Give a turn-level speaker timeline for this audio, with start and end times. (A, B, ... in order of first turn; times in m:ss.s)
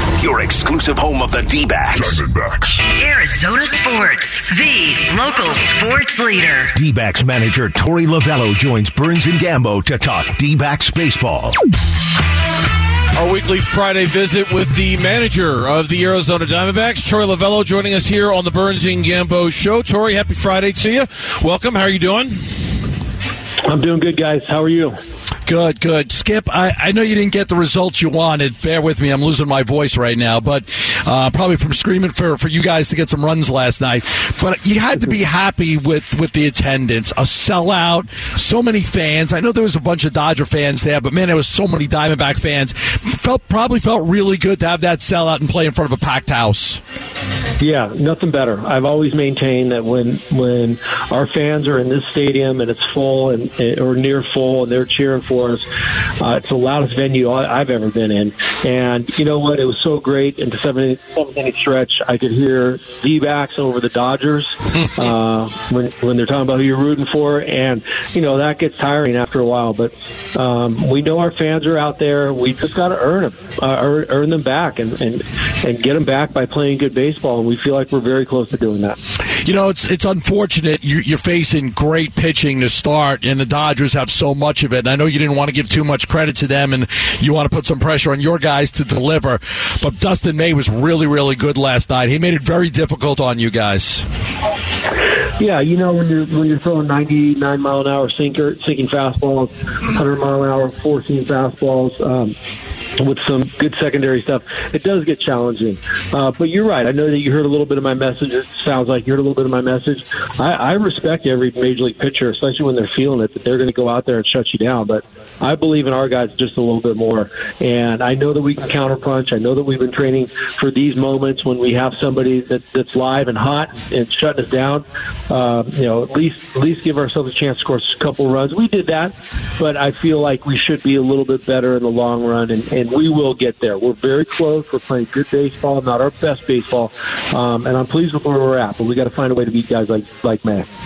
0:00.2-0:02.8 A
0:02.9-0:06.7 B
0:06.7-0:11.6 A
0:13.1-0:22.6 C
0:23.6-0:24.9 D
0:25.4-0:46.8 E
0:47.6-0:55.6 D
0:56.2-1:19.0 D
1:19.4-1:34.0 E
1:35.4-1:42.3 D
1:43.0-2:20.7 D